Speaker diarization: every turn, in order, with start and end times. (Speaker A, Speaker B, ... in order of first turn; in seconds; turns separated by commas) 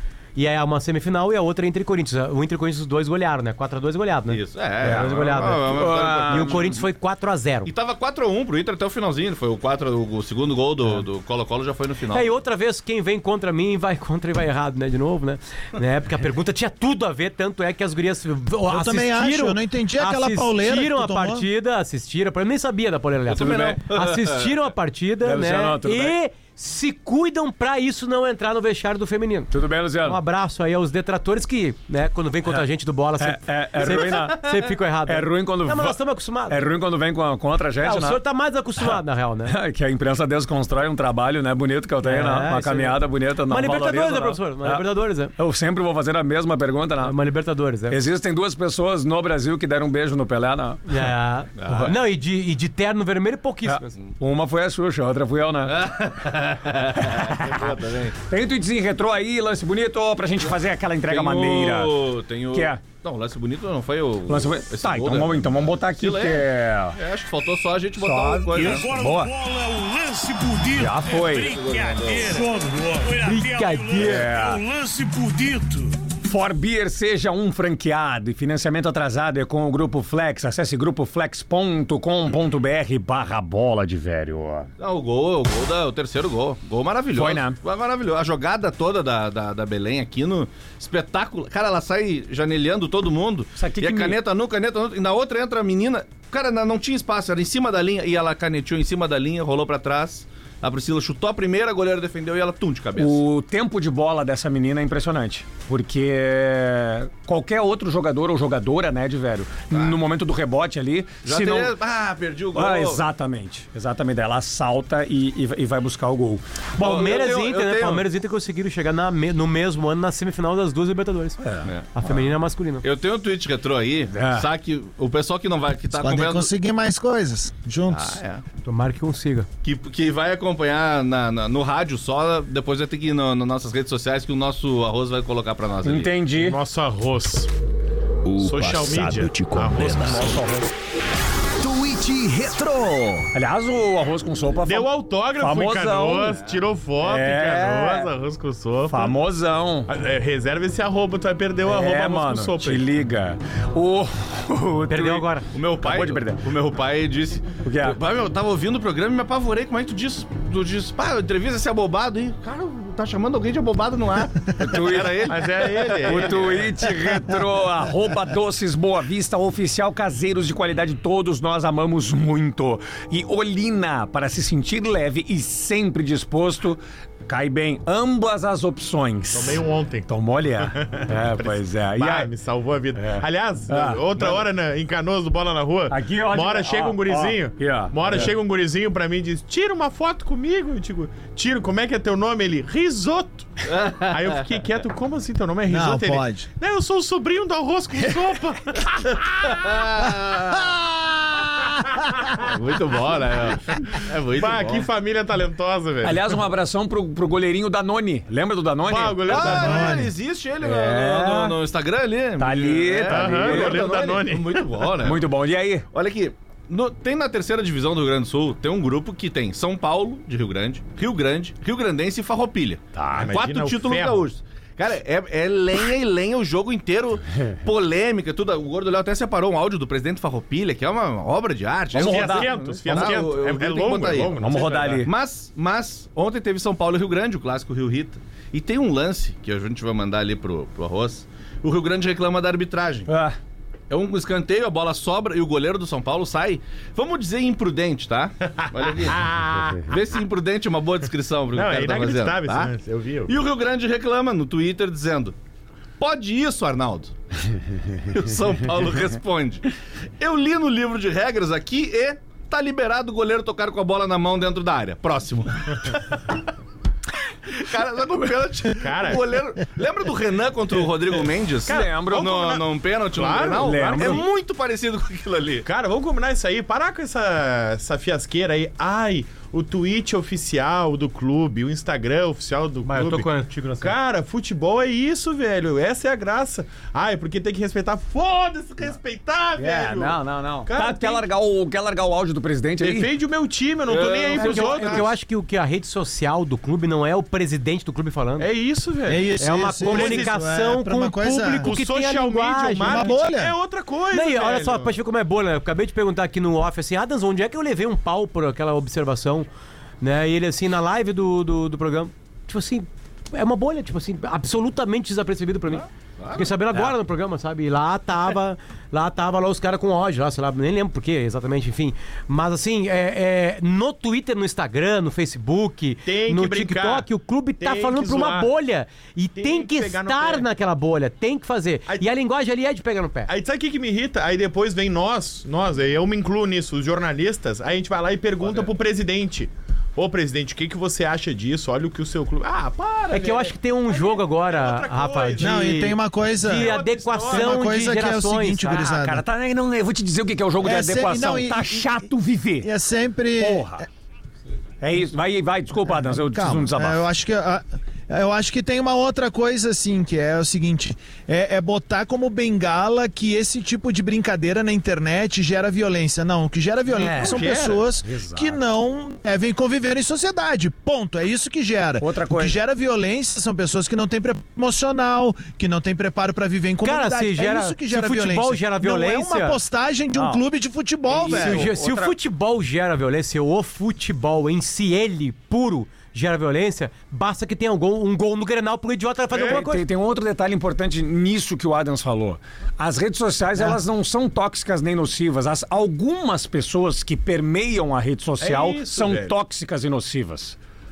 Speaker A: 0.3-7.7, Speaker B: 4.3-6.8, Speaker C: 4.8-6.7, Speaker B: 7.7-12.3, Speaker A: 12.1-29.5, Speaker D: 18.7-21.5, Speaker B: 23.3-24.5, Speaker C: 25.2-26.1, Speaker C: 29.5-30.2, Speaker A: 30.1-36.7, Speaker C: 33.2-38.2, Speaker A: 37.8-39.5, Speaker C: 38.8-47.2, Speaker A: 42.0-45.3, Speaker A: 47.0-48.0, Speaker C: 47.9-51.1, Speaker A: 50.9-53.9, Speaker B: 51.6-51.9, Speaker C: 53.7-55.8, Speaker B: 55.7-58.2, Speaker C: 57.0-57.7, Speaker C: 58.3-62.8, Speaker B: 61.1-69.0, Speaker C: 64.3-67.0, Speaker C: 68.0-69.4, Speaker E: 68.6-75.9, Speaker C: 70.7-71.7, Speaker B: 71.0-72.6, Speaker A: 73.1-74.3, Speaker C: 74.0-74.7, Speaker C: 76.2-84.7, Speaker B: 84.8-103.2, Speaker C: 87.2-87.6, Speaker C: 93.6-94.2, Speaker C: 103.0-111.8, Speaker B: 111.2-113.0, Speaker C: 112.5-116.4, Speaker A: 116.8-121.4, Speaker B: 116.8-118.0, Speaker C: 121.4-122.2, Speaker B: 121.7-121.9, Speaker A: 122.0-122.8, Speaker B: 122.8-126.5, Speaker C: 124.1-124.5, Speaker D: 126.0-128.2, Speaker B: 127.9-128.4, Speaker A: 128.6-129.5, Speaker B: 129.6-136.1, Speaker C: 135.8-136.6, Speaker F: 136.4-137.5, Speaker G: 138.2-140.4, Speaker F: 138.4-140.5, Speaker C: 139.8-140.7, Speaker G: 141.6-143.3, Speaker C: 143.3-146.4, Speaker F: 144.7-149.1, Speaker C: 147.0-148.1, Speaker C: 148.9-149.9, Speaker F: 149.9-152.8, Speaker C: 151.7-156.4, Speaker A: 154.9-155.4, Speaker B: 155.5-166.7, Speaker C: 157.6-158.0, Speaker C: 164.6-182.3, Speaker F: 165.3-166.5, Speaker F: 179.3-180.1, Speaker F: 180.6-193.5, Speaker C: 183.0-184.4, Speaker C: 185.9-188.3, Speaker B: 193.7-194.4, Speaker F: 194.1-199.9, Speaker D: 195.7-196.5, Speaker B: 199.5-200.6, Speaker B: 202.5-204.9, Speaker F: 204.3-206.2, Speaker C: 206.0-209.7, Speaker F: 208.9-209.9, Speaker B: 209.3-215.2, Speaker D: 209.6-210.1, Speaker C: 210.6-211.6, Speaker C: 212.4-213.9, Speaker F: 213.1-214.7, Speaker C: 215.0-215.9, Speaker B: 215.9-243.1, Speaker F: 223.1-224.3, Speaker F: 231.9-235.1, Speaker C: 232.0-233.3, Speaker C: 234.4-235.1, Speaker C: 243.1-243.4, Speaker B: 243.9-249.2, Speaker F: 248.6-250.0, Speaker B: 249.9-252.7, Speaker F: 251.5-253.3, Speaker B: 253.3-255.3, Speaker B: 256.0-257.2, Speaker B: 258.0-259.6, Speaker B: 260.2-266.2, Speaker B: 267.5-275.6, Speaker F: 268.8-269.2, Speaker C: 271.7-272.4, Speaker F: 271.7-274.2, Speaker C: 273.4-274.2, Speaker F: 275.6-283.3, Speaker A: 282.9-283.9, Speaker F: 283.8-291.2, Speaker C: 289.6-293.1, Speaker F: 292.8-295.1, Speaker B: 293.9-295.1, Speaker A: 294.3-298.5, Speaker F: 298.4-300.4, Speaker D: 299.1-301.7, Speaker A: 299.4-303.1, Speaker F: 301.6-304.9, Speaker D: 302.9-303.6, Speaker A: 304.1-309.5, Speaker A: 310.0-333.3, Speaker B: 315.7-316.9, Speaker F: 326.0-327.1, Speaker F: 327.6-328.5, Speaker F: 329.4-330.5, Speaker F: 331.9-332.1, Speaker F: 333.3-345.9, Speaker A: 343.1-348.9, Speaker D: 345.4-349.2, Speaker F: 346.5-347.7, Speaker C: 348.8-352.7, Speaker D: 350.6-352.0, Speaker D: 352.6-353.8, Speaker C: 353.4-353.9, Speaker C: 354.8-357.1, Speaker D: 356.1-381.7, Speaker C: 366.9-368.6, Speaker C: 372.0-372.6, Speaker A: 376.8-379.6, Speaker C: 380.1-380.4, Speaker C: 381.1-382.1, Speaker A: 381.2-389.9, Speaker F: 389.3-389.6, Speaker C: 389.3-400.6, Speaker F: 398.4-399.3